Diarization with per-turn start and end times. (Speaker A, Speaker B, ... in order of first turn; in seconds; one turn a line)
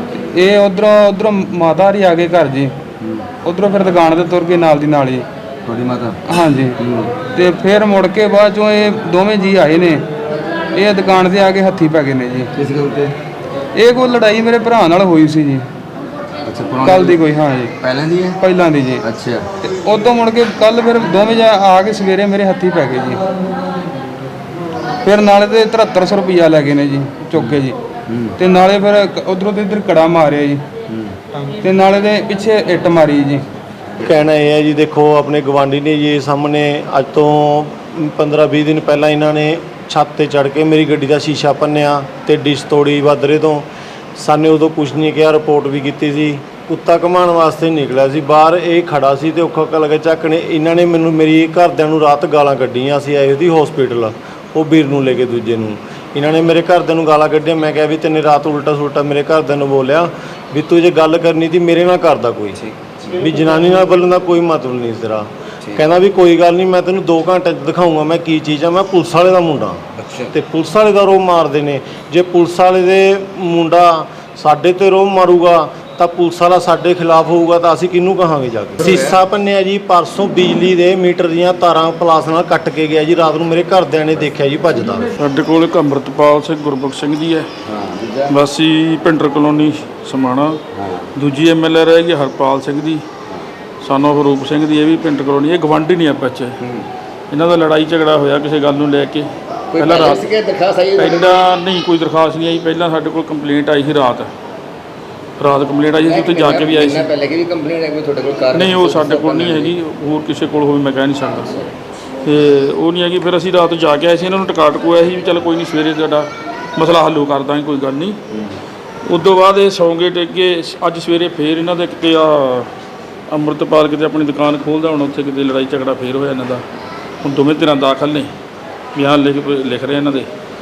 Speaker A: 0.1-2.8
Speaker A: 3.4-5.3
Speaker B: 5.7-6.2
Speaker A: 6.2-10.0
Speaker B: 6.8-7.1
Speaker A: 10.7-12.5
Speaker B: 12.6-13.1
Speaker A: 13.7-15.7
Speaker B: 16.5-17.2
Speaker A: 16.8-17.7
Speaker B: 17.8-18.4
Speaker A: 18.4-19.0
Speaker B: 19.0-19.4
Speaker A: 19.6-23.2
Speaker A: 25.0-27.8
Speaker A: 28.4-30.6
Speaker A: 31.4-33.4
Speaker C: 34.0-85.1
Speaker B: 70.0-70.3
Speaker B: 78.8-79.1
Speaker D: 85.2-87.5
Speaker B: 87.6-88.3
Speaker D: 88.3-90.6
Speaker B: 90.8-91.1
Speaker D: 91.1-93.0
Speaker D: 93.8-96.6
Speaker D: 97.3-100.3
Speaker B: 99.7-101.4
Speaker D: 100.9-104.3
Speaker D: 105.4-107.1
Speaker B: 106.0-109.7
Speaker D: 108.5-111.7
Speaker D: 112.2-118.2
Speaker D: 119.0-122.7
Speaker D: 123.3-126.6
Speaker D: 127.2-128.3
Speaker D: 128.9-130.3